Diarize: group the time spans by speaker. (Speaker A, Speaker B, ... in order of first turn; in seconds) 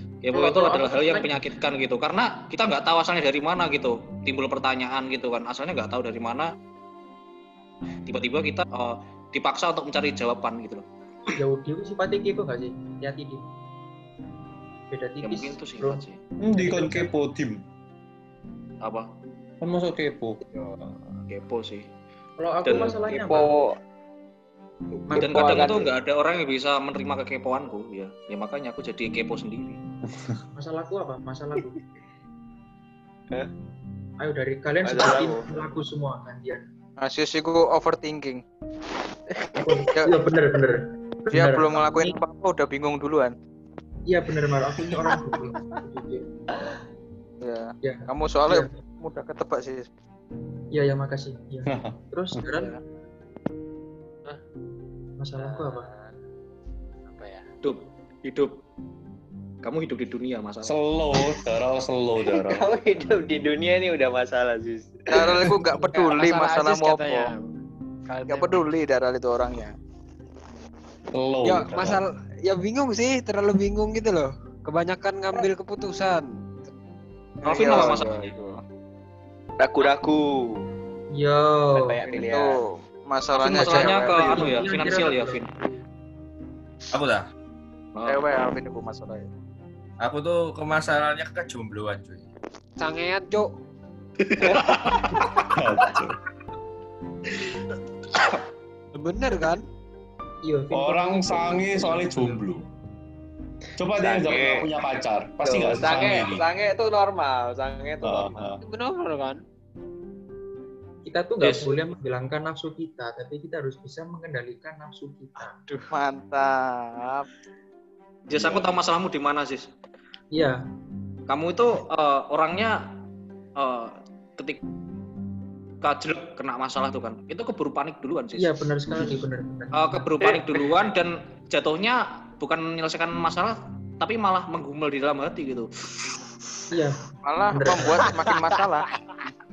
Speaker A: 0.2-6.5, 8.1-10.8, 15.2-16.2, 18.8-19.1, 21.3-21.9, 22.6-22.9, 25.2-29.8, 57.6-58.5, 59.6-60.7, 77.5-78.3, 83.3-85.5, 88.0-88.2, 111.4-111.8, 118.3-119.7, 121.3-122.8, 123.6-124.6, 125.8-128.5, 129.8-135.7
Speaker B: 0.3-1.4, 11.4-13.5, 14.9-16.0, 16.6-17.0, 22.4-23.5, 25.1-25.7, 30.6-31.8, 34.2-36.6, 39.6-42.1, 44.1-46.3, 47.8-48.7, 50.7-52.7, 55.2-55.9, 81.2-82.0, 83.5-85.4, 100.5-102.5, 111.1-115.5, 128.4-130.2, 136.7-138.0
Speaker C: 16.4-17.6, 19.6-20.4, 51.7-52.5, 60.6-62.7, 71.1-72.0, 95.5-96.2, 100.7-102.6, 103.8-106.4, 108.0-108.6
Speaker D: 20.4-20.9, 22.7-23.8, 25.1-25.9, 34.8-35.5, 39.5-39.9, 62.3-65.3, 79.6-80.6, 81.8-82.6, 104.0-104.7, 105.4-108.6
Speaker E: 37.0-38.4, 40.0-40.2, 41.3-43.3, 47.4-49.9, 65.1-67.3, 68.3-69.8, 77.4-78.6, 82.1-82.6, 83.1-84.6, 88.1-89.3, 115.9-117.3, 137.2-138.9
Speaker F: 55.4-56.1, 57.1-57.5, 65.8-67.5, 68.1-68.7, 71.4-76.3, 92.8-93.5, 98.9-99.7, 108.6-109.4, 115.4-115.9
Speaker G: 86.9-87.2, 90.0-92.3